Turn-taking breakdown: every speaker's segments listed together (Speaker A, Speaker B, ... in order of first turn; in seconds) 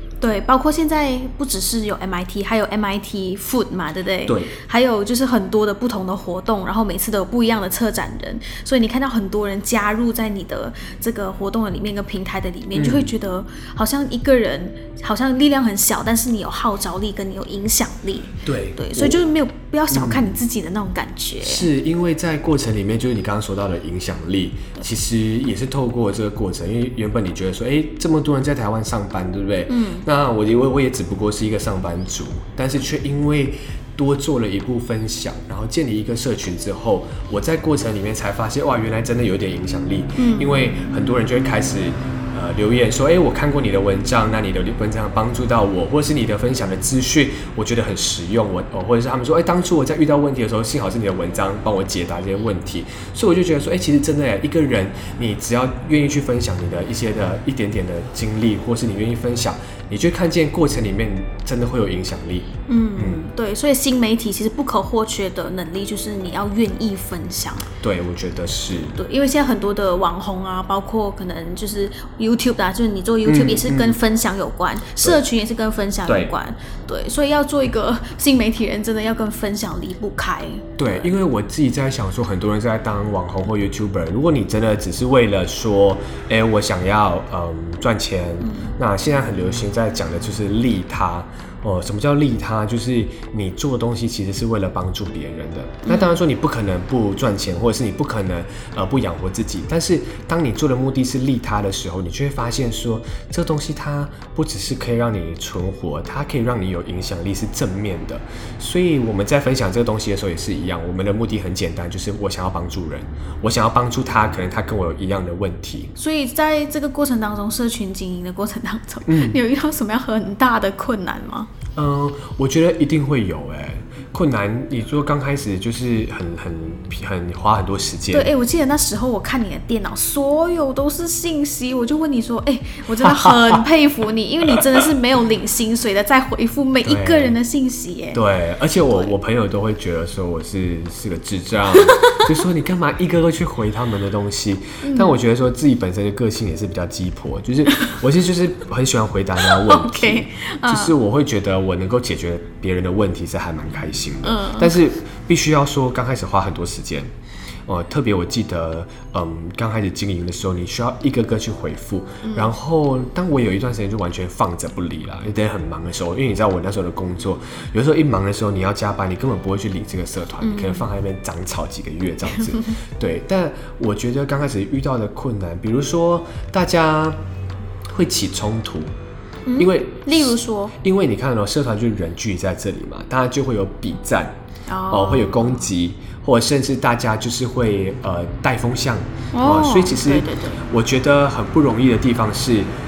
Speaker A: 0.2-21.7, 29.7-30.1, 40.2-40.5, 62.7-67.7, 69.0-81.1, 88.4-88.7, 95.9-96.2, 116.0-121.5, 128.1-138.2, 141.8-142.3, 144.8-145.2, 149.4-150.9, 154.2-154.8, 162.2-162.5, 170.4-170.9, 172.4-172.7, 179.5-180.7, 184.7-185.7, 189.3-190.6
Speaker B: 4.3-4.5, 12.7-13.1, 18.4-19.2, 19.9-20.4, 21.4-63.3, 67.8-69.0, 73.2-74.0, 76.0-76.3, 80.8-115.9, 119.1-119.4, 121.8-128.3, 133.0-133.6, 136.8-137.4, 138.1-157.1, 157.7-177.2, 177.9-178.9, 179.6-184.4, 184.9-192.7